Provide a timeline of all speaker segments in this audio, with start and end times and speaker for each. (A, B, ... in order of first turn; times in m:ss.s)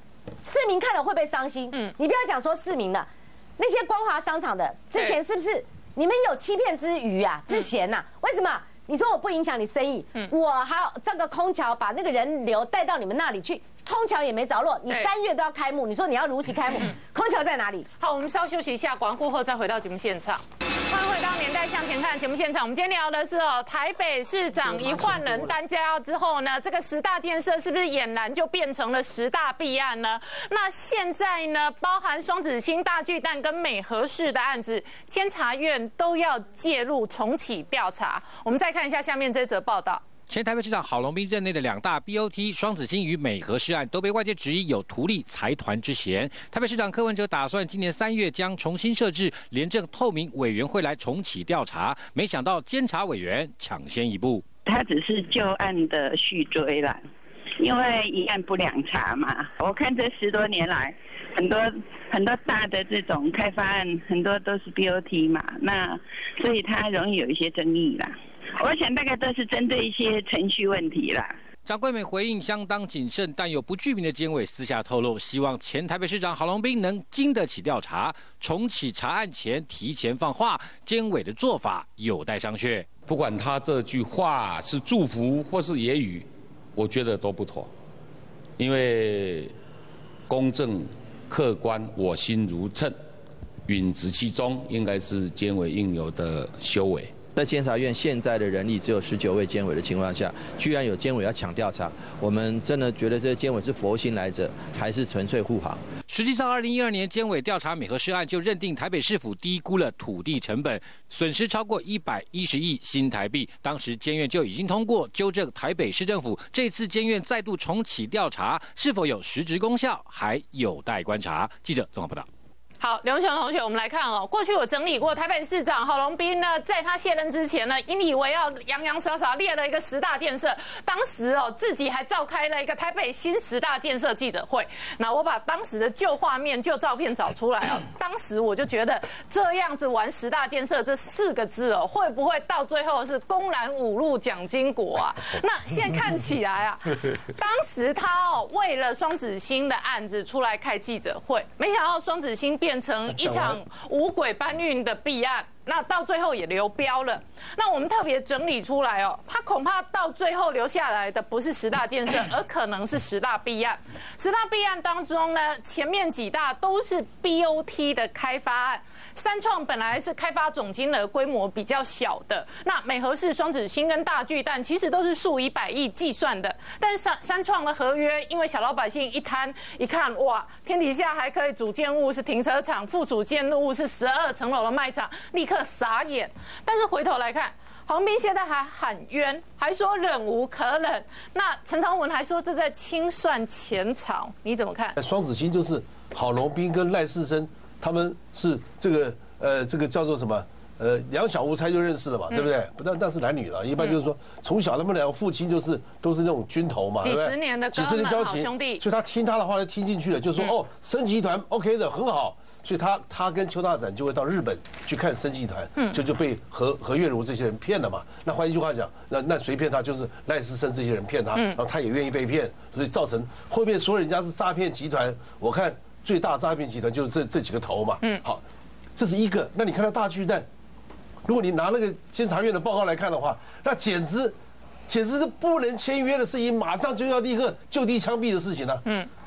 0:00.4-0:17.9 A
0:18.0-0:40.0 B
0:40.3-0:54.4 C
0:54.6-0:57.0 D
0:57.6-1:11.3 D
1:11.6-1:23.0 C
1:23.0-1:27.7 E
1:28.6-1:29.5 E
1:30.3-1:33.0 E
1:33.7-1:37.1 E
1:37.3-1:45.8 F
1:46.1-2:02.3 C
2:02.8-3:14.9 B
2:33.1-2:33.6 G
3:15.0-3:48.4 G
3:27.0-3:28.8 B
3:49.0-3:50.4 G
3:51.2-3:54.4 G
3:54.9-3:58.8 G